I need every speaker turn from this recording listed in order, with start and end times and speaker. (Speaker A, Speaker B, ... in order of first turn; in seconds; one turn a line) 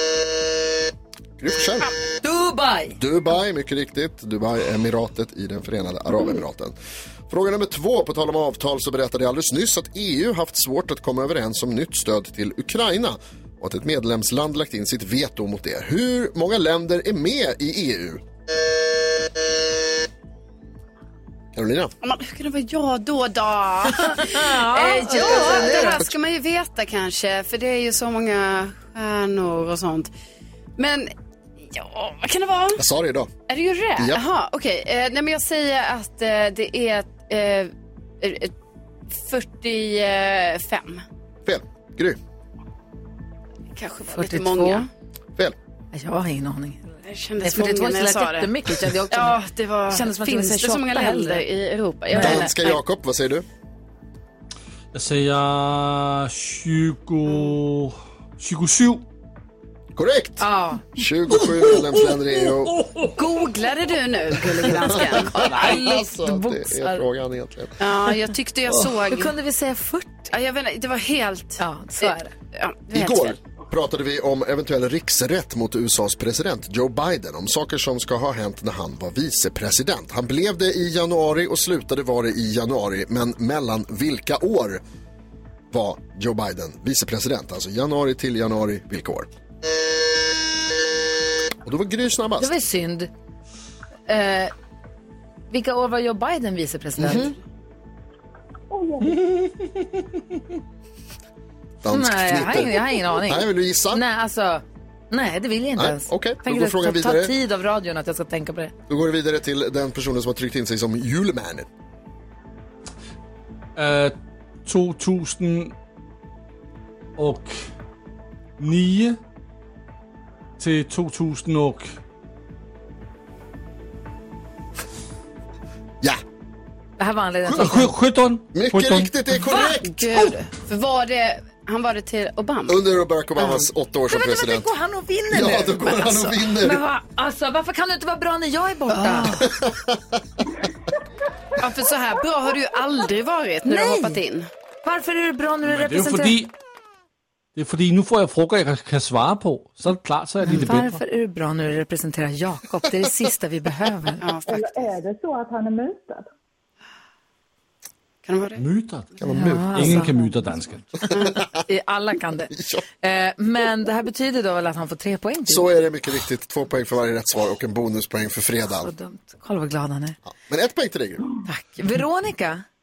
Speaker A: 1.4-1.9
Speaker B: 2.2-3.0
Speaker A: 3.0-6.7
Speaker A: 7.3-18.2
Speaker A: 21.5-21.9
Speaker C: 22.0-30.1
Speaker B: 24.0-26.1
Speaker A: 25.3-26.1
Speaker C: 30.8-31.1
Speaker C: 31.7-32.8
Speaker A: 32.8-33.3
Speaker C: 33.5-38.5
Speaker A: 34.0-34.2
Speaker C: 39.1-41.0
Speaker A: 41.5-42.2
Speaker C: 43.7-44.9
Speaker B: 44.1-44.8
Speaker B: 45.9-51.4
Speaker C: 47.0-52.8
Speaker B: 52.1-52.5
Speaker A: 52.2-53.5
Speaker D: 54.9-59.0
Speaker A: 59.9-62.8
Speaker B: 60.4-60.9
Speaker D: 61.3-63.1
Speaker C: 63.1-65.4
Speaker A: 65.0-67.8
Speaker B: 65.3-67.0
Speaker C: 67.8-69.3
Speaker B: 69.0-70.3
Speaker C: 70.3-73.4
Speaker B: 71.6-72.3
Speaker A: 72.9-84.8
Speaker A: 85.7-89.3
Speaker A: 91.6-92.5
Speaker B: 92.4-93.1
Speaker B: 94.1-94.5
Speaker B: 95.5-97.3
Speaker A: 97.0-97.3
Speaker E: 98.7-99.3
Speaker A: 101.8-104.0
Speaker B: 101.9-108.7
Speaker A: 105.8-107.3
Speaker A: 108.9-111.7
Speaker D: 113.8-115.7
Speaker D: 117.2-117.6
Speaker D: 118.6-119.2
Speaker D: 120.6-122.0
Speaker B: 127.0-128.0
Speaker D: 127.5-129.2
Speaker A: 128.5-130.3
Speaker C: 129.4-132.8
Speaker A: 132.7-134.7
Speaker C: 133.4-133.7
Speaker B: 134.1-139.4
Speaker A: 135.3-136.8
Speaker C: 138.9-139.4
Speaker A: 139.6-139.9
Speaker C: 141.6-144.5
Speaker B: 143.7-144.2
Speaker B: 144.8-146.4
Speaker D: 145.6-146.5
Speaker D: 147.6-151.0
Speaker B: 150.5-154.2
Speaker C: 154.2-154.9
Speaker E: 154.4-156.3
Speaker C: 158.2-158.6
Speaker D: 158.6-160.9
Speaker A: 159.2-159.9
Speaker B: 159.3-160.2
Speaker B: 161.7-165.7
Speaker A: 162.5-162.8
Speaker A: 165.5-168.9
Speaker B: 168.8-170.2
Speaker A: 170.2-171.2
Speaker B: 171.4-172.6